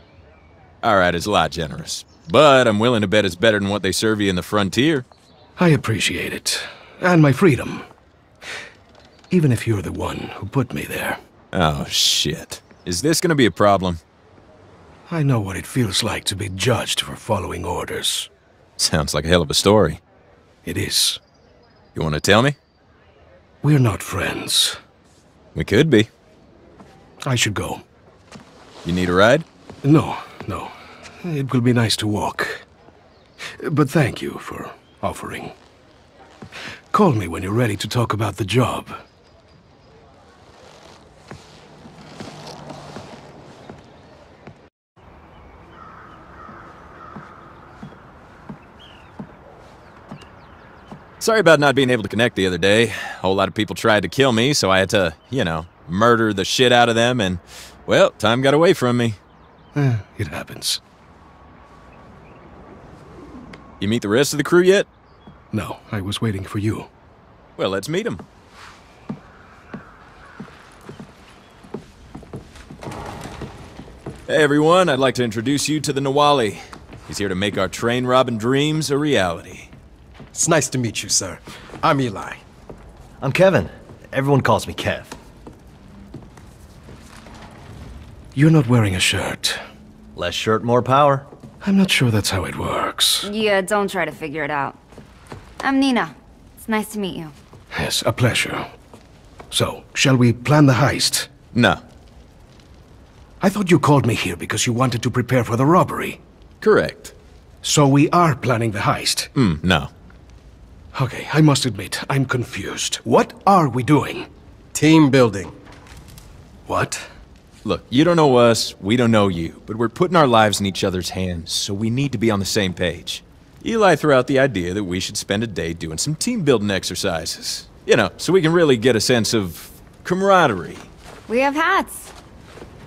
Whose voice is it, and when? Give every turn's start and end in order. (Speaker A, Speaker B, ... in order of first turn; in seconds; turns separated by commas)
Speaker A: 0.8-5.0, Speaker B: 5.6-7.9, Speaker B: 9.3-11.2, Speaker A: 11.5-14.0, Speaker B: 15.1-18.3, Speaker A: 18.8-20.0, Speaker B: 20.6-21.2, Speaker A: 21.9-22.6, Speaker B: 23.6-24.8, Speaker A: 25.6-26.1, Speaker B: 27.3-27.8, Speaker A: 28.9-29.4, Speaker B: 29.8-32.6, Speaker B: 33.5-35.5, Speaker B: 36.9-39.0, Speaker A: 51.2-59.2, Speaker B: 59.7-60.8, Speaker A: 63.8-64.9, Speaker B: 65.5-66.9, Speaker A: 67.6-68.2, Speaker A: 74.3-79.7, Speaker C: 80.3-82.4, Speaker D: 83.2-85.1, Speaker B: 88.3-89.6, Speaker D: 90.2-91.3, Speaker B: 91.6-93.3, Speaker E: 93.2-94.8, Speaker E: 95.6-97.3, Speaker B: 97.7-98.7, Speaker B: 99.5-101.3, Speaker A: 101.5-101.8, Speaker B: 103.4-106.2, Speaker A: 106.6-107.1, Speaker B: 107.6-109.3, Speaker A: 109.3-109.9, Speaker B: 110.9-114.3, Speaker C: 114.7-115.5, Speaker B: 116.7-117.0, Speaker A: 117.6-130.9, Speaker E: 131.3-132.1